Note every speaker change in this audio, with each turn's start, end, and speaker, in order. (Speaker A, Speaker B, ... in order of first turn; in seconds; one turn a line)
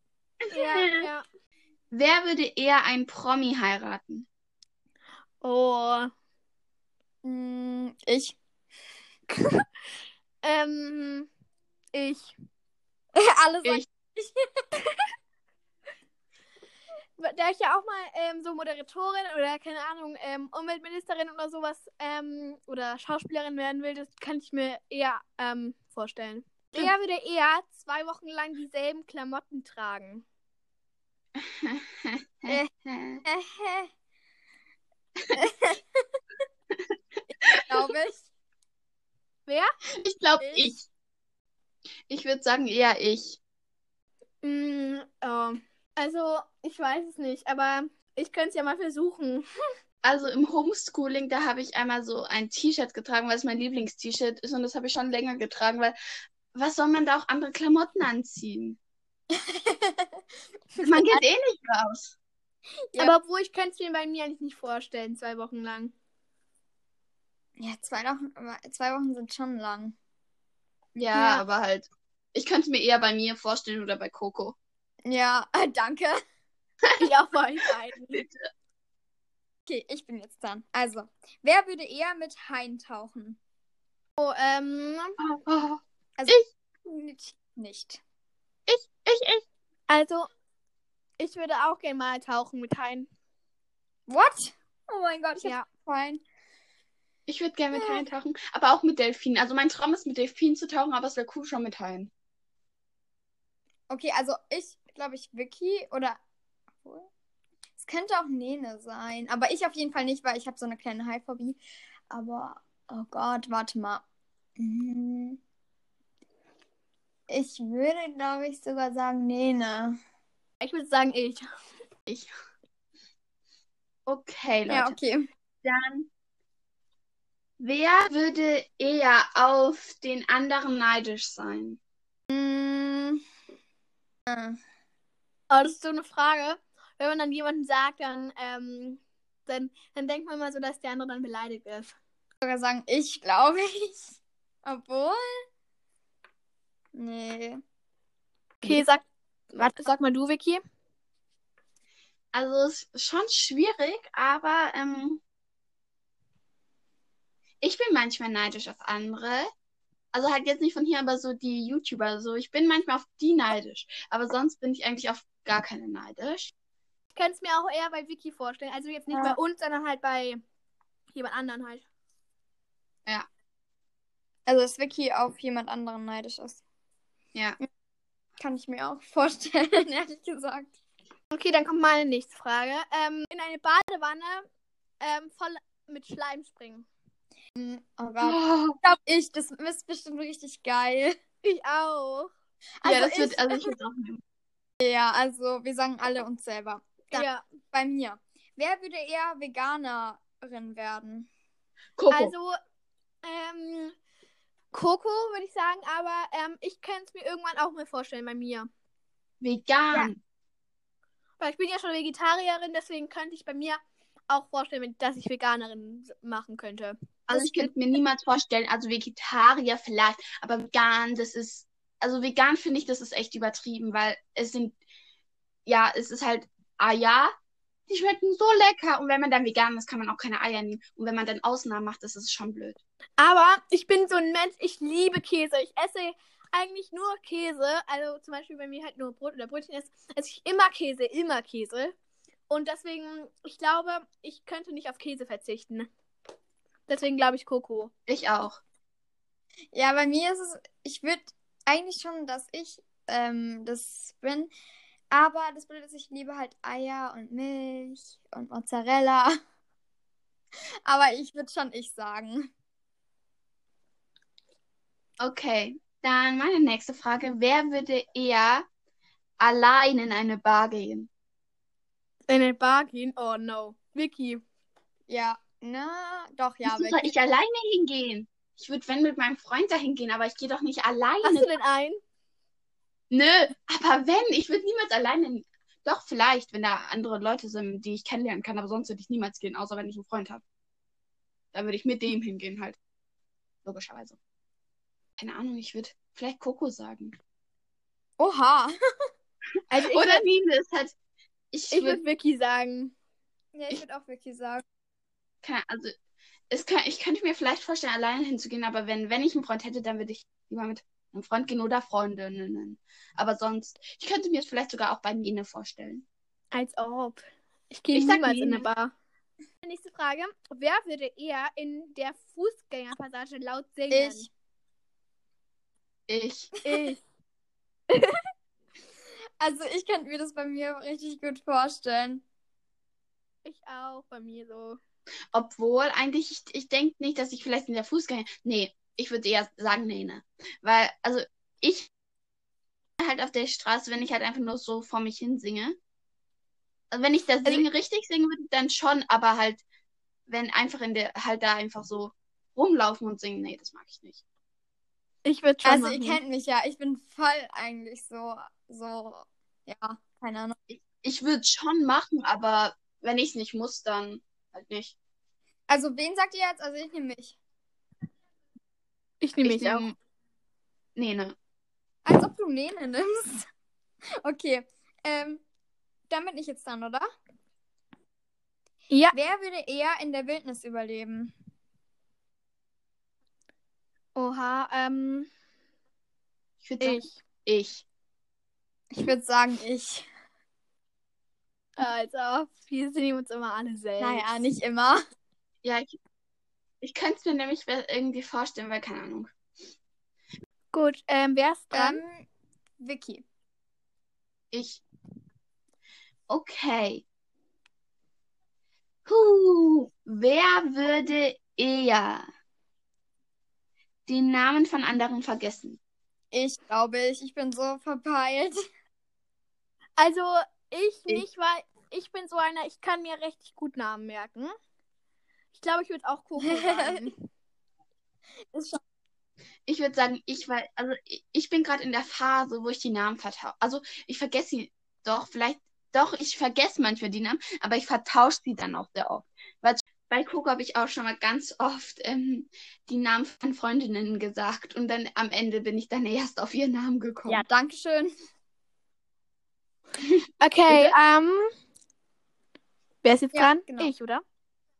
Speaker A: 0.4-1.1
Speaker B: 0.5-1.2
Speaker A: 1.9-4.3
Speaker B: 5.4-6.1
Speaker C: 7.2-8.4
Speaker B: 9.3-9.6
Speaker B: 10.4-11.3
Speaker B: 11.9-12.3
Speaker C: 13.2-14.5
Speaker B: 17.2-30.2
Speaker A: 31.4-33.2
Speaker C: 33.2-33.9
Speaker C: 35.3-35.8
Speaker C: 37.3-38.3
Speaker A: 40.0-40.9
Speaker C: 40.4-40.7
Speaker A: 42.1-43.4
Speaker B: 44.4-49.4
Speaker A: 50.0-56.0
Speaker A: 56.5-58.8
Speaker C: 59.3-60.2
Speaker C: 60.7-61.2
Speaker A: 60.8-62.1
Speaker B: 63.0-65.9
Speaker C: 67.6-69.9
Speaker A: 71.0-74.5
Speaker B: 71.1-71.4
Speaker C: 75.0-76.2
Speaker B: 77.0-78.1
Speaker A: 78.1-78.5
Speaker C: 79.7-83.4
Speaker B: 84.2-85.2
Speaker A: 85.2-86.4
Speaker C: 86.2-88.0
Speaker A: 88.7-89.4
Speaker B: 89.9-90.3
Speaker B: 91.2-93.1
Speaker C: 94.1-96.2
Speaker A: 97.3-102.1
Speaker C: 97.7-98.0
Speaker C: 103.9-106.2
Speaker C: 106.8-107.1
Speaker C: 107.8-111.6
Speaker C: 112.1-114.0
Speaker C: 114.6-115.4
Speaker C: 117.3-120.0
Speaker B: 120.6-121.4
Speaker A: 124.0-125.0
Speaker C: 124.7-125.3
Speaker A: 125.6-126.1
Speaker A: 127.6-131.8
Speaker C: 132.3-133.2
Speaker C: 134.3-134.6
Speaker B: 135.5-141.9
Speaker C: 142.4-145.2
Speaker C: 146.9-147.6
Speaker B: 148.6-149.0
Speaker B: 149.6-150.6
Speaker A: 152.3-155.2
Speaker A: 157.6-159.5
Speaker A: 160.1-166.5
Speaker B: 167.2-170.4
Speaker C: 169.1-169.4
Speaker B: 171.1-171.8
Speaker C: 174.5-176.6
Speaker A: 177.3-177.6
Speaker C: 178.4-180.7
Speaker B: 181.3-184.4
Speaker B: 185.0-186.9
Speaker C: 187.6-191.2
Speaker A: 188.2-188.8
Speaker B: 191.4-192.3
Speaker C: 192.8-193.7
Speaker A: 192.8-194.2
Speaker C: 194.8-201.3
Speaker B: 197.1-197.4
Speaker A: 202.0-202.3
Speaker B: 202.1-202.5
Speaker B: 203.2-203.9
Speaker B: 204.7-208.7
Speaker A: 209.4-210.2
Speaker B: 211.4-217.7
Speaker A: 217.3-224.8
Speaker A: 225.7-227.3
Speaker A: 227.9-232.8
Speaker B: 233.2-241.9
Speaker B: 242.5-245.9
Speaker B: 246.9-247.9
Speaker A: 248.1-248.6
Speaker C: 249.7-254.5
Speaker C: 255.1-259.4
Speaker C: 260.9-262.5
Speaker A: 265.2-268.7
Speaker A: 269.4-271.1
Speaker B: 272.3-274.4
Speaker C: 275.1-277.1
Speaker A: 276.6-281.5
Speaker B: 281.2-282.0
Speaker A: 283.1-290.4
Speaker A: 291.5-292.8
Speaker A: 293.6-294.2
Speaker A: 295.2-297.1
Speaker C: 298.2-298.7
Speaker B: 299.7-300.2
Speaker A: 299.7-300.9
Speaker A: 301.5-302.0
Speaker B: 301.7-302.9
Speaker C: 303.5-304.6
Speaker A: 305.4-305.9
Speaker A: 306.5-316.1
Speaker B: 316.5-318.9
Speaker A: 317.9-318.7
Speaker B: 319.6-324.3
Speaker C: 323.9-324.3
Speaker A: 326.1-326.5
Speaker B: 326.6-327.0
Speaker B: 327.9-328.2
Speaker C: 329.4-332.2
Speaker B: 333.4-334.8
Speaker A: 335.3-341.9
Speaker A: 343.0-345.8
Speaker A: 346.9-349.6
Speaker A: 350.3-354.2
Speaker B: 355.2-356.2
Speaker C: 355.6-360.6
Speaker A: 360.7-364.9
Speaker C: 365.7-367.4
Speaker B: 369.2-369.8
Speaker A: 369.4-369.9
Speaker A: 370.9-371.3
Speaker C: 372.0-373.4
Speaker C: 374.2-375.4
Speaker C: 376.1-377.1
Speaker B: 378.9-379.1
Speaker C: 379.1-381.3
Speaker B: 384.1-385.3
Speaker A: 386.6-387.8
Speaker B: 386.8-387.1
Speaker C: 388.9-390.1
Speaker B: 391.8-394.3
Speaker C: 394.0-395.0
Speaker A: 395.6-395.9
Speaker A: 396.8-399.3
Speaker B: 400.7-402.0
Speaker C: 401.7-402.3
Speaker C: 402.8-403.2
Speaker A: 404.5-404.8
Speaker A: 406.3-407.0
Speaker A: 409.1-412.2
Speaker A: 414.1-415.8
Speaker C: 416.3-418.6
Speaker B: 420.0-424.5
Speaker B: 425.5-427.2
Speaker C: 426.4-427.0
Speaker C: 428.5-428.8
Speaker A: 429.6-447.4
Speaker C: 447.3-448.1
Speaker B: 450.4-451.4
Speaker A: 450.7-450.9
Speaker B: 453.0-454.2
Speaker C: 453.3-453.9